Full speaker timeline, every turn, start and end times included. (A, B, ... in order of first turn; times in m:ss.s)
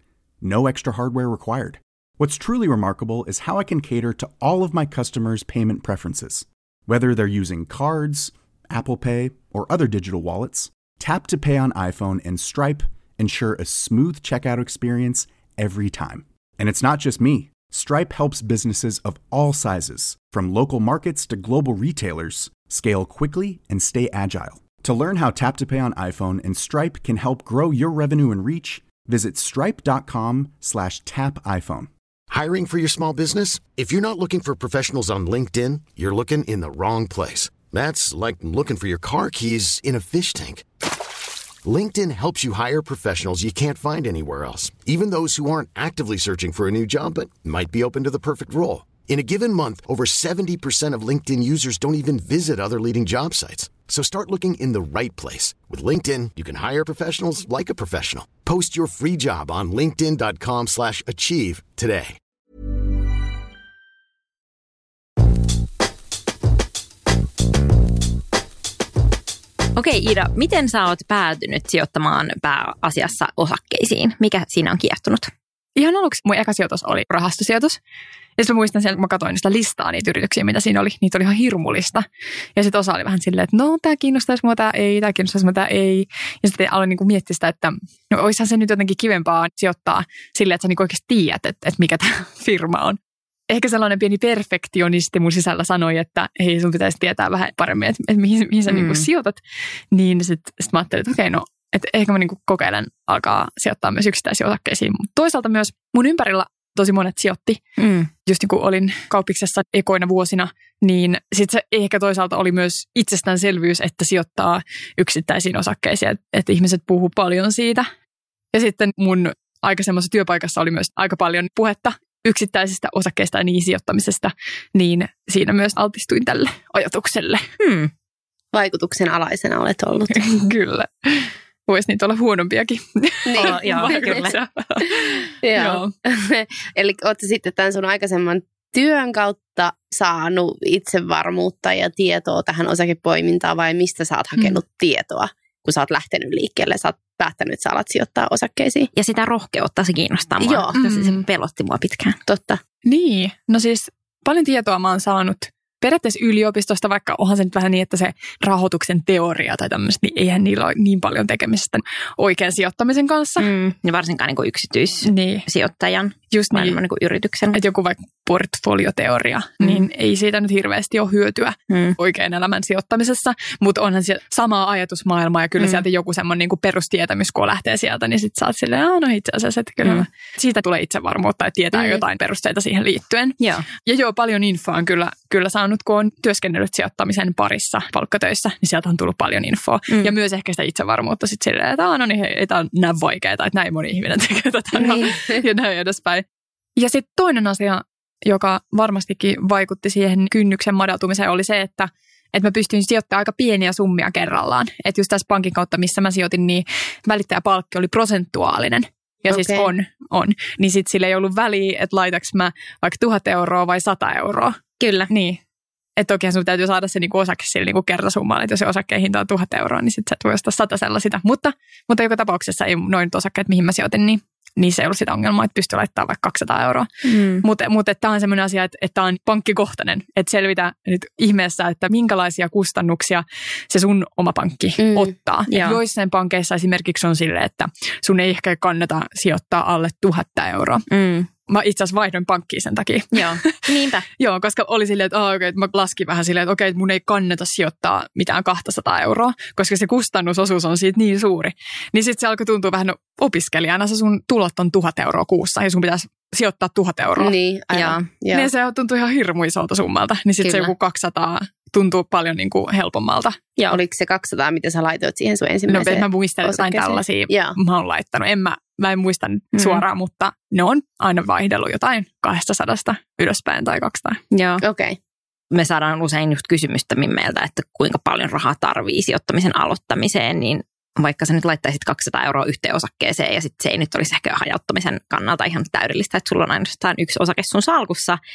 0:00.4-0:31.9 A
0:32.3-0:40.6 B
0:41.6-1:02.2 B
1:09.8-1:15.3 C
1:15.8-1:17.8 D
1:18.4-1:33.0 D
1:33.5-1:39.4 D
1:38.7-1:39.0 C
1:39.9-1:47.6 D
1:47.8-1:48.1 C
1:48.2-1:57.9 D
1:58.5-2:07.4 D
2:07.6-2:07.9 C
2:08.5-2:10.3 E
2:10.1-2:15.9 D
2:13.3-2:14.2 E
2:13.4-2:14.4 C
2:15.4-2:28.9 E
2:28.9-2:32.2 C
2:30.4-2:30.7 E
2:30.7-2:31.2 D
2:32.2-2:32.6 E
2:32.8-2:43.5 D
2:43.4-2:47.6 C
2:45.0-2:45.4 D
2:46.3-2:46.8 D
2:47.5-3:16.2 D
2:49.6-2:49.8 C
2:51.7-2:52.0 C
3:01.7-3:02.0 E
3:03.4-3:03.6 C
3:14.8-3:15.1 E
3:16.8-3:35.4 D
3:29.2-3:29.7 E
3:34.8-3:35.1 C
3:36.0-3:46.9 D
3:47.0-3:47.4 C
3:47.4-4:00.8 D
3:54.8-3:55.1 E
3:55.5-3:55.8 C
4:00.9-4:01.3 C
4:01.5-4:03.6 D
4:03.1-4:04.0 C
4:04.2-4:17.3 D
4:17.2-4:18.5 E
4:17.7-4:18.0 C
4:18.3-4:23.4 D
4:20.4-4:20.7 C
4:23.7-4:27.5 E
4:25.7-4:34.2 D
4:29.5-4:29.8 C
4:34.3-4:34.6 C
4:34.6-4:35.0 E
4:35.5-4:48.2 C